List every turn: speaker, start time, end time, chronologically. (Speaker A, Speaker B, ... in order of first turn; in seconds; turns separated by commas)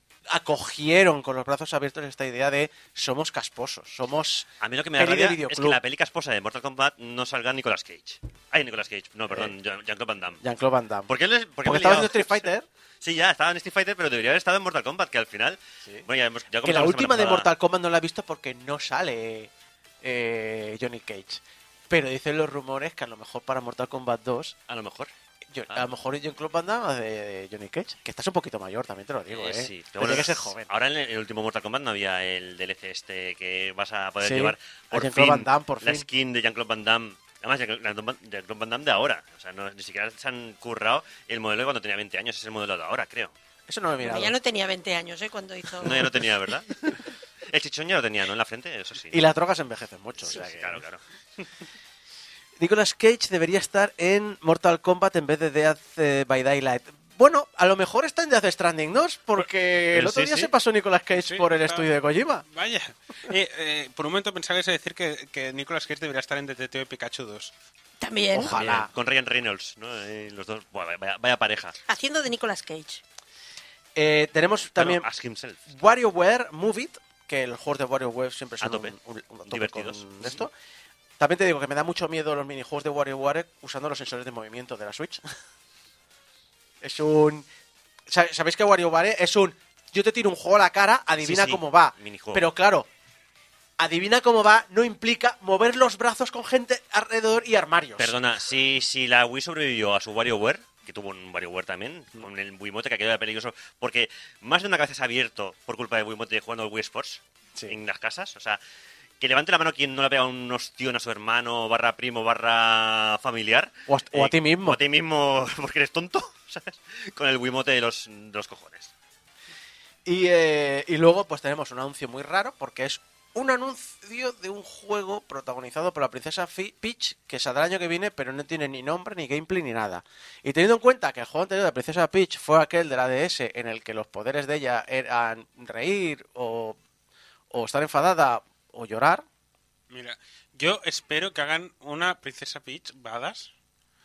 Speaker A: 0.3-5.8, Speaker B: 4.6-10.4, Speaker A: 9.3-9.5, Speaker A: 10.4-11.1, Speaker B: 11.1-12.5, Speaker A: 11.6-12.7, Speaker B: 13.0-17.5, Speaker A: 16.6-24.6, Speaker B: 24.7-25.1, Speaker A: 25.5-30.7, Speaker B: 29.3-43.4, Speaker A: 34.2-36.1, Speaker A: 43.7-44.4, Speaker C: 44.0-46.2, Speaker B: 45.8-49.2, Speaker A: 45.8-46.2, Speaker A: 49.1-50.8, Speaker B: 50.2-51.5, Speaker A: 52.6-62.4, Speaker B: 59.9-60.5, Speaker D: 61.1-61.9, Speaker D: 62.5-67.5, Speaker C: 68.0-68.6, Speaker A: 68.3-68.9, Speaker B: 68.4-71.8, Speaker C: 71.9-73.0, Speaker A: 74.0-75.1, Speaker B: 74.7-75.7, Speaker A: 75.7-80.5, Speaker B: 78.6-78.9, Speaker B: 79.5-80.5, Speaker A: 81.2-85.3, Speaker A: 86.8-87.5, Speaker A: 88.1-92.9, Speaker B: 91.2-92.5, Speaker A: 93.8-98.1, Speaker B: 98.0-108.6, Speaker B: 109.2-118.9, Speaker A: 113.9-114.8, Speaker A: 120.0-136.8, Speaker A: 137.5-139.2, Speaker D: 139.9-143.5